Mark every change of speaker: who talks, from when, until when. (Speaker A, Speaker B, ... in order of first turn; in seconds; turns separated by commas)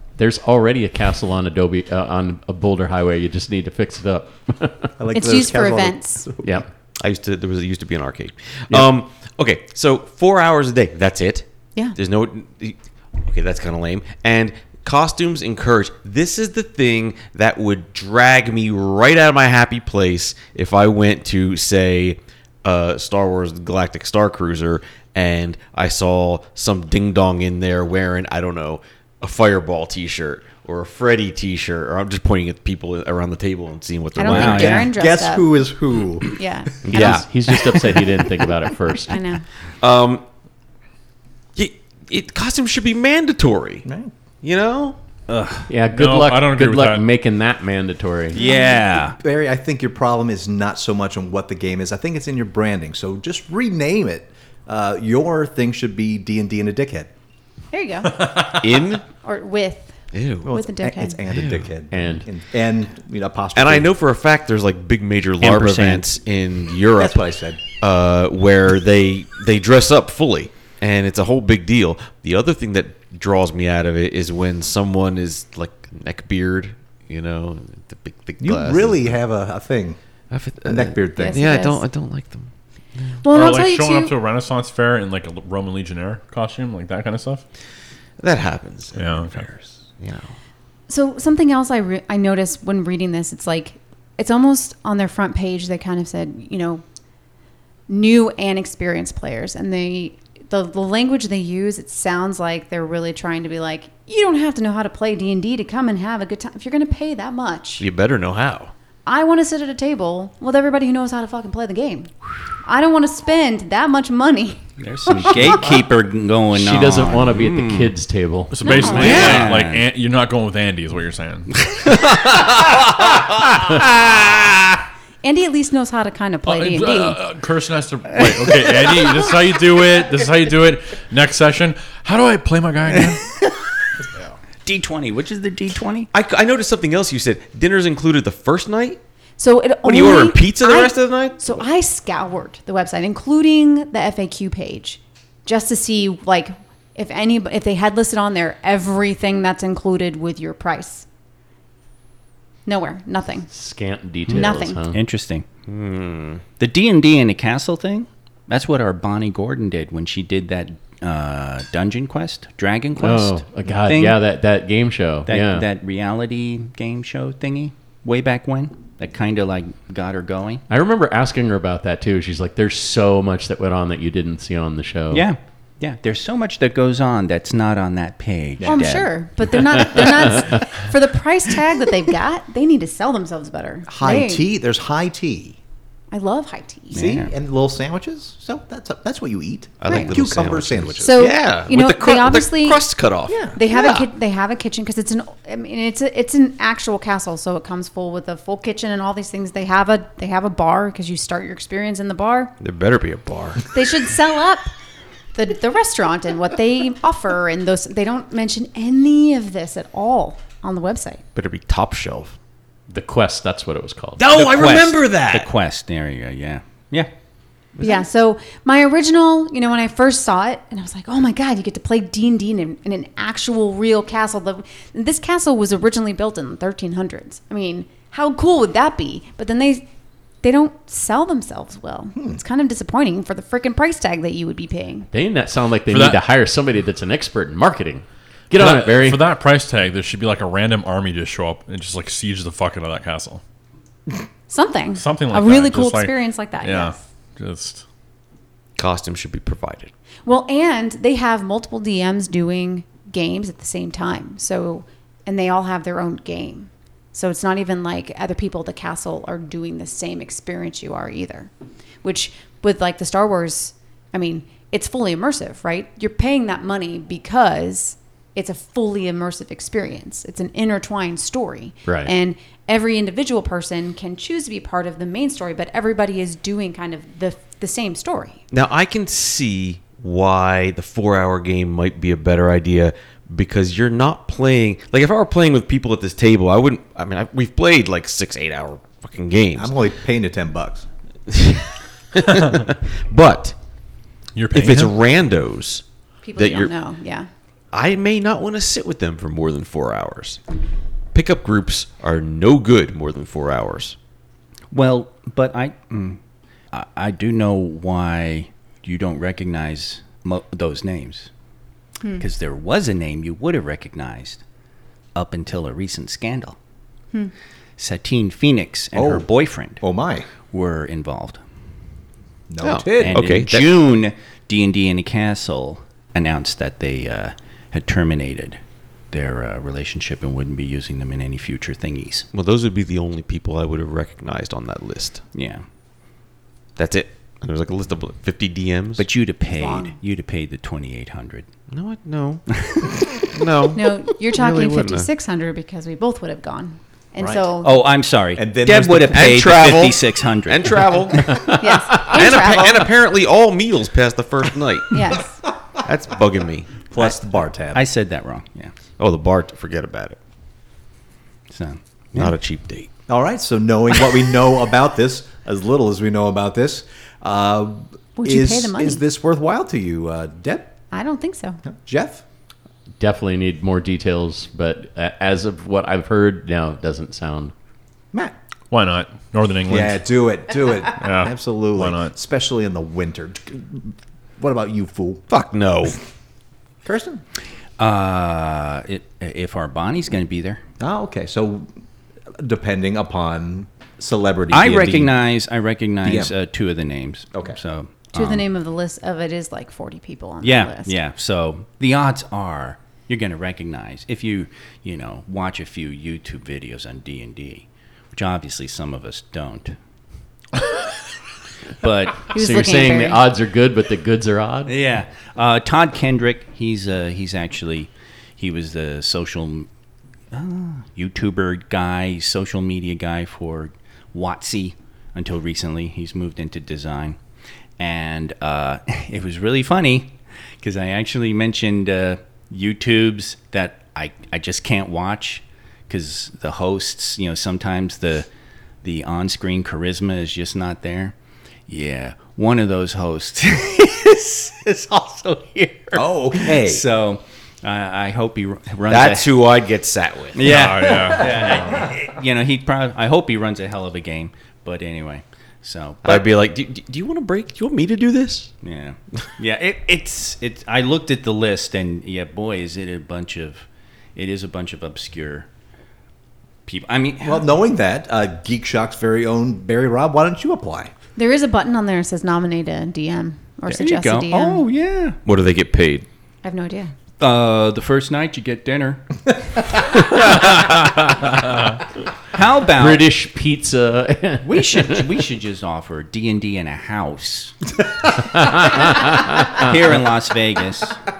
Speaker A: 0.2-4.9, Speaker B: 5.0-6.6, Speaker C: 5.1-6.2, Speaker D: 7.0-34.9, Speaker C: 34.2-35.6, Speaker E: 34.2-34.9, Speaker B: 34.8-36.4, Speaker C: 36.3-37.2, Speaker D: 36.8-37.3, Speaker A: 36.9-39.2, Speaker C: 39.1-39.4, Speaker D: 39.8-40.2, Speaker D: 41.5-43.9, Speaker B: 43.8-44.1, Speaker D: 44.4-45.0, Speaker E: 45.3-45.7, Speaker A: 45.7-48.4, Speaker F: 45.9-47.0, Speaker E: 48.3-49.2, Speaker C: 48.4-48.8, Speaker B: 49.1-57.1, Speaker C: 57.7-58.3, Speaker F: 58.1-58.6, Speaker D: 58.5-59.0, Speaker C: 59.1-60.0, Speaker D: 60.1-60.5, Speaker B: 60.4-63.9, Speaker C: 60.5-61.2, Speaker D: 61.3-61.7, Speaker A: 61.9-62.3, Speaker D: 63.5-67.2, Speaker E: 65.4-66.0, Speaker B: 67.0-67.6, Speaker D: 67.8-79.2, Speaker B: 78.4-80.0, Speaker D: 80.3-83.2, Speaker B: 80.6-81.4, Speaker C: 81.2-81.8, Speaker C: 83.2-84.1, Speaker F: 83.3-87.4, Speaker D: 88.2-90.3, Speaker F: 89.0-89.5, Speaker C: 90.9-96.8, Speaker C: 97.9-107.8, Speaker D: 107.8-108.7, Speaker C: 109.0-112.1, Speaker C: 112.6-114.6, Speaker E: 114.8-117.9, Speaker A: 116.5-118.6, Speaker F: 118.5-121.8, Speaker C: 118.6-119.2, Speaker E: 118.7-119.8, Speaker D: 118.9-119.5, Speaker D: 121.9-124.5, Speaker C: 125.2-127.2, Speaker F: 126.5-133.2, Speaker E: 134.6-136.1, Speaker D: 136.1-139.0, Speaker C: 139.4-151.1, Speaker D: 139.8-141.6, Speaker C: 152.7-153.5, Speaker A: 153.5-155.0, Speaker E: 154.3-155.4, Speaker C: 154.3-154.8, Speaker D: 155.7-156.4, Speaker E: 156.6-164.2, Speaker A: 163.0-165.7, Speaker E: 165.2-170.6, Speaker A: 170.7-175.2, Speaker E: 175.1-179.1, Speaker B: 178.6-178.9, Speaker C: 178.6-184.4, Speaker B: 183.9-185.6, Speaker C: 186.1-187.1, Speaker E: 186.9-187.3, Speaker B: 186.9-191.3, Speaker D: 189.8-194.1, Speaker C: 189.9-190.2, Speaker C: 191.0-192.8, Speaker B: 193.3-193.9, Speaker C: 193.5-202.5, Speaker D: 202.6-203.6, Speaker C: 203.7-204.7, Speaker C: 205.3-211.2, Speaker D: 211.3-212.3, Speaker A: 212.9-214.4, Speaker D: 214.2-215.5, Speaker E: 214.3-217.1, Speaker D: 217.8-218.0, Speaker C: 217.8-229.8, Speaker C: 230.4-235.1, Speaker B: 232.2-232.4, Speaker A: 235.1-239.2, Speaker F: 235.9-236.2, Speaker F: 238.5-243.4, Speaker C: 244.5-247.0, Speaker F: 245.0-247.8, Speaker D: 248.8-249.9, Speaker C: 250.2-261.5, Speaker C: 262.0-278.4, Speaker A: 271.9-272.1, Speaker D: 278.5-289.8, Speaker B: 289.6-290.9, Speaker D: 291.3-293.6, Speaker F: 294.3-294.9, Speaker D: 294.5-295.8, Speaker C: 296.2-297.3, Speaker D: 296.4-296.7, Speaker D: 297.7-300.4, Speaker D: 301.1-303.9, Speaker E: 304.7-306.2, Speaker E: 306.7-311.3, Speaker E: 312.2-314.4, Speaker E: 315.1-316.6, Speaker E: 317.8-319.8, Speaker B: 318.9-320.3, Speaker E: 320.5-321.4, Speaker B: 322.5-323.2, Speaker D: 322.6-323.9, Speaker E: 323.0-328.6, Speaker E: 329.1-332.3, Speaker D: 332.3-335.2, Speaker E: 335.3-335.6, Speaker D: 336.8-339.1, Speaker E: 339.0-341.5, Speaker B: 339.6-339.9, Speaker D: 341.7-342.4, Speaker E: 342.6-342.9, Speaker D: 343.2-345.1, Speaker C: 343.7-347.8, Speaker B: 347.2-347.4, Speaker E: 347.6-351.3, Speaker B: 348.3-349.2, Speaker D: 349.0-355.0, Speaker C: 351.6-352.9, Speaker C: 354.9-355.4, Speaker D: 355.8-356.7, Speaker B: 356.9-357.9, Speaker E: 357.7-358.7, Speaker D: 359.0-360.2, Speaker E: 361.5-362.3, Speaker D: 362.1-362.9, Speaker B: 363.1-370.7, Speaker C: 368.2-369.0, Speaker C: 370.9-371.6, Speaker B: 371.6-372.2, Speaker A: 373.0-377.5, Speaker F: 378.7-380.0, Speaker B: 379.7-385.2, Speaker F: 380.9-382.1, Speaker D: 385.3-386.0, Speaker B: 386.8-387.2, Speaker E: 387.8-390.6, Speaker B: 390.8-391.7, Speaker B: 392.4-395.2, Speaker E: 394.5-398.4, Speaker B: 396.0-396.3, Speaker C: 398.1-400.9, Speaker E: 400.4-409.8, Speaker E: 411.8-412.3, Speaker C: 412.3-413.2, Speaker A: 412.3-414.7, Speaker E: 414.7-419.7, Speaker E: 420.3-427.2, Speaker E: 427.8-438.3, Speaker E: 438.8-441.1, Speaker E: 441.7-449.4, Speaker B: 445.9-446.8, Speaker D: 448.9-451.1, Speaker E: 450.3-456.3, Speaker F: 450.4-451.9, Speaker D: 456.0-458.5, Speaker E: 458.6-465.5, Speaker E: 466.6-467.5, Speaker B: 467.2-470.9, Speaker C: 471.1-474.6, Speaker E: 473.7-475.2, Speaker D: 475.2-476.1, Speaker C: 476.4-476.9, Speaker E: 477.2-479.0, Speaker A: 480.7-481.0, Speaker E: 482.3-483.1, Speaker A: 482.7-485.0, Speaker E: 484.4-487.5, Speaker A: 488.1-489.7, Speaker E: 489.5-491.0